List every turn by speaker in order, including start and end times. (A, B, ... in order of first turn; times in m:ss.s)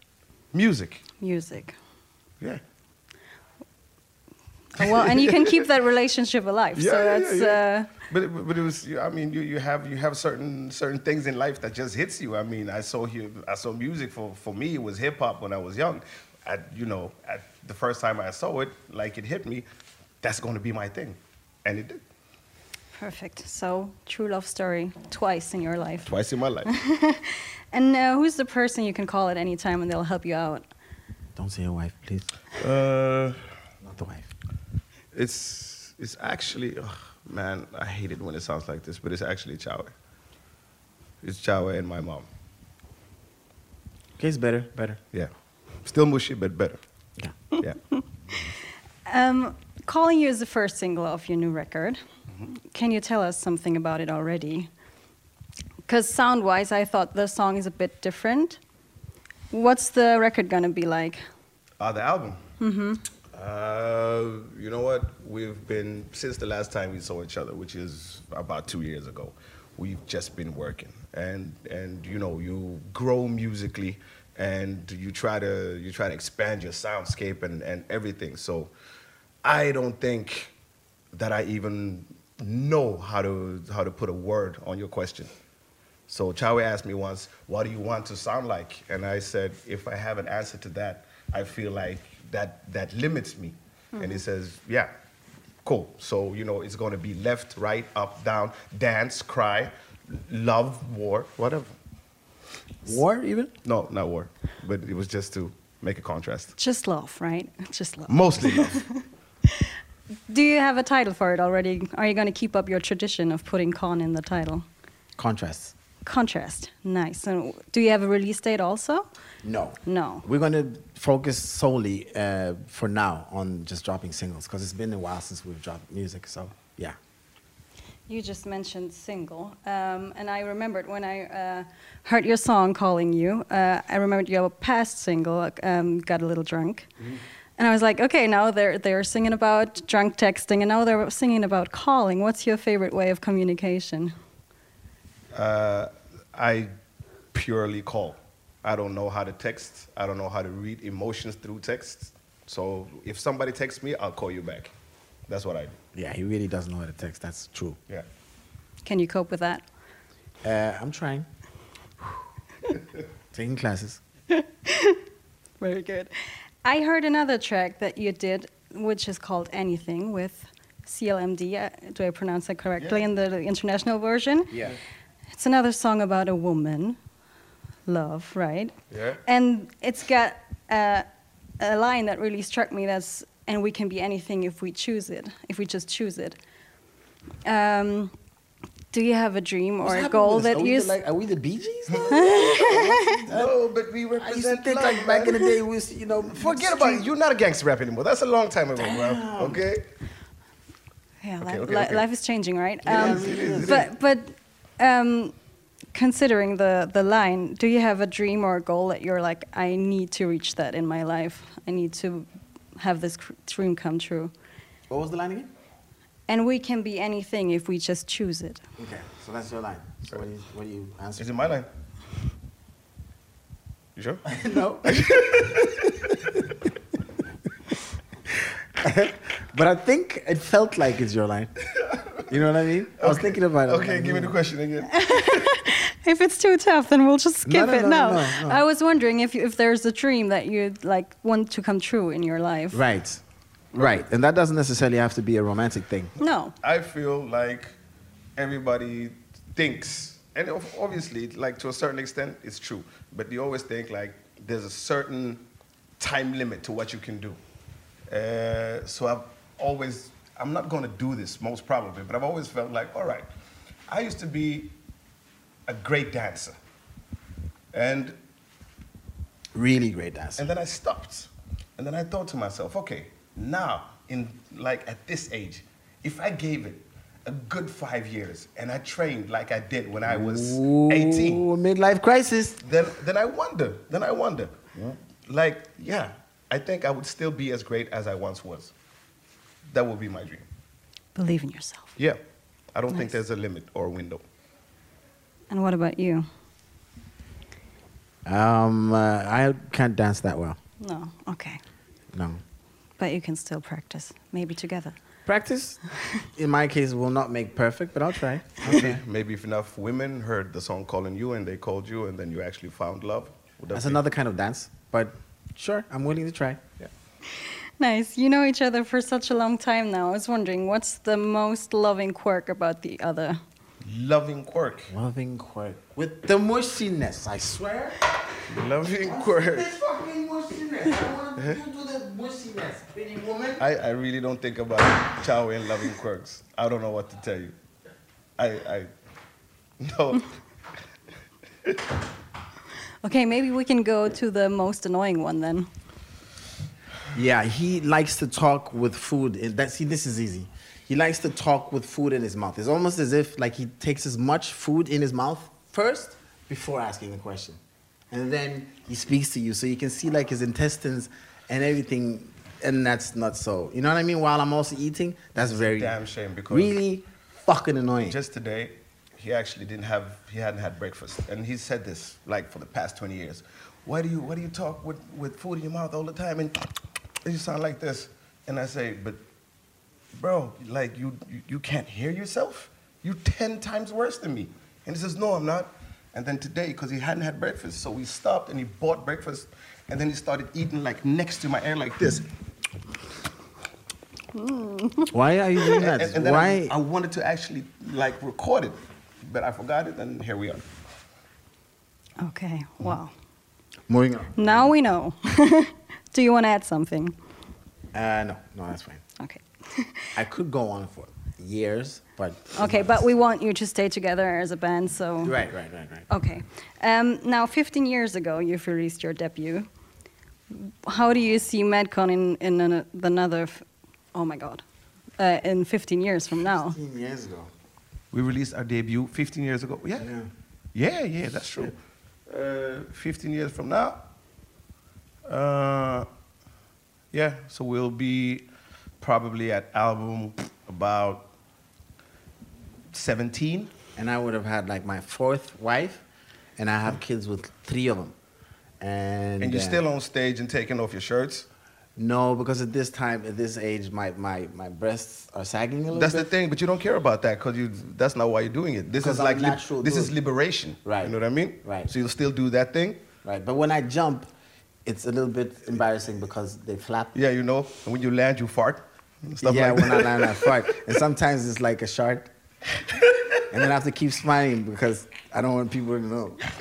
0:00.5-0:01.0 A
0:01.2-0:01.8 B
0:04.8-0:07.9 B
0:04.8-0:05.7 A
0:06.7-0:19.7 A
0:20.2-0:22.0 A
0:23.0-0:26.1 B
0:26.0-0:26.7 A
0:26.6-0:30.7 B
0:31.4-0:32.3 C
0:32.6-0:33.4 A
0:33.8-0:34.3 C
0:35.1-0:39.9 A
0:41.2-0:42.3 A
0:44.2-0:45.0 C
0:45.8-0:46.8 A
0:49.0-0:54.7 B
0:55.8-0:58.6 B
0:59.5-1:01.2 B
1:01.8-1:02.4 A
1:02.6-1:03.0 B
1:03.3-1:18.7 A
1:19.4-1:20.5 A
1:21.1-1:25.3 A
1:26.1-1:34.9 A
1:33.9-1:34.2 B
1:35.6-1:41.7 A
1:42.8-1:43.5 C
1:43.6-1:46.5 A
1:46.6-1:49.0 B
1:48.1-1:48.8 A
1:50.3-1:54.6 B
1:55.2-1:55.7 C
1:56.0-1:59.0 B
1:59.4-2:07.0 C
1:59.8-2:00.2 B
2:08.1-2:16.9 B
2:17.6-2:24.1 B
2:25.3-2:26.7 A
2:27.3-2:34.7 A
2:35.3-2:35.8 A
2:35.9-2:37.8 C
2:38.8-2:39.6 B
2:40.4-2:41.3 C
2:43.3-2:44.0 C
2:44.3-2:45.0 B
2:45.6-2:46.1 B
2:46.6-2:54.7 B
2:52.8-2:53.0 A
2:54.5-2:54.8 C
2:55.3-2:57.0 B
2:57.9-2:58.7 B
2:58.9-2:59.2 A
2:59.2-3:01.0 B
3:01.6-3:06.4 B
3:07.4-3:08.1 B
3:08.9-3:11.0 B
3:09.8-3:13.6 C
3:11.9-3:15.5 A
3:12.1-3:13.2 B
3:14.2-3:17.1 C
3:16.3-3:19.8 A
3:18.8-3:19.6 C
3:21.2-3:25.3 B
3:21.4-3:22.0 A
3:22.8-3:23.9 C
3:22.8-3:23.9 A
3:25.9-3:34.3 B
3:34.9-3:35.5 C
3:36.3-3:38.6 B
3:38.8-3:41.3 C
3:41.2-3:41.7 A
3:44.0-3:44.2 A
3:44.2-3:45.8 C
3:44.8-3:46.2 A
3:48.8-3:51.5 C
3:52.3-3:54.4 C
3:53.0-3:55.5 A
3:54.9-4:02.8 B
3:57.4-3:58.6 C
4:02.7-4:03.2 C
4:03.7-4:06.1 C
4:03.8-4:04.0 A
4:06.2-4:06.5 B
4:06.6-4:07.7 A
4:08.4-4:15.4 A
4:16.0-4:17.4 A
4:18.1-4:23.3 A
4:23.9-4:24.7 A
4:25.7-4:26.6 A
4:27.7-4:28.2 A
4:29.5-4:30.4 C
4:30.4-4:41.5 A
4:40.1-4:42.6 C
4:42.6-4:48.7 A
4:49.7-4:50.4 A
4:51.1-4:51.9 B
4:52.7-4:54.2 A
4:55.5-4:56.2 B
4:58.2-5:00.6 C
5:00.8-5:01.6 B
5:02.1-5:02.4 C
5:03.0-5:05.0 B
5:05.2-5:05.8 C
5:06.3-5:09.0 C
5:08.6-5:14.0 A
5:13.7-5:16.6 C
5:17.8-5:23.4 B
5:23.8-5:24.9 A
5:24.9-5:28.0 C
5:28.5-5:29.7 A
5:28.8-5:33.6 C
5:33.6-5:37.5 A
5:38.4-5:38.9 A
5:39.8-5:40.2 A
5:43.0-5:45.7 B
5:47.1-5:57.6 C
5:58.1-6:05.9 C
6:05.4-6:06.8 A
6:06.5-6:08.2 C
6:08.0-6:16.5 A
6:17.2-6:19.2 A
6:20.1-6:32.2 A
6:34.3-6:35.1 B
6:35.1-6:36.7 C
6:35.7-6:40.6 A
6:42.2-6:43.1 B
6:43.9-6:44.7 C
6:44.4-6:47.1 B
6:47.9-6:49.0 C
6:49.2-6:50.1 B
6:50.1-6:53.1 C
6:52.6-6:55.4 B
6:55.2-6:56.1 C
6:56.1-6:59.7 B
7:00.5-7:04.6 B
7:05.2-7:06.8 B
7:06.4-7:07.5 C
7:08.1-7:10.1 A
7:10.0-7:10.3 C
7:10.7-7:11.7 A
7:12.3-7:14.0 A
7:15.3-7:16.1 A
7:17.1-7:18.5 A
7:19.0-7:21.3 A
7:22.9-7:23.7 A
7:24.0-7:26.0 C
7:26.6-7:28.1 C
7:28.8-7:29.8 C
7:29.4-7:31.5 A
7:32.0-7:36.3 C
7:35.9-7:43.0 A
7:39.0-7:40.1 C
7:40.8-7:41.9 C
7:43.2-7:44.3 C
7:44.8-7:47.1 C
7:47.1-7:50.6 A
7:49.4-7:52.3 C
7:53.0-7:53.4 A
7:53.5-7:56.4 C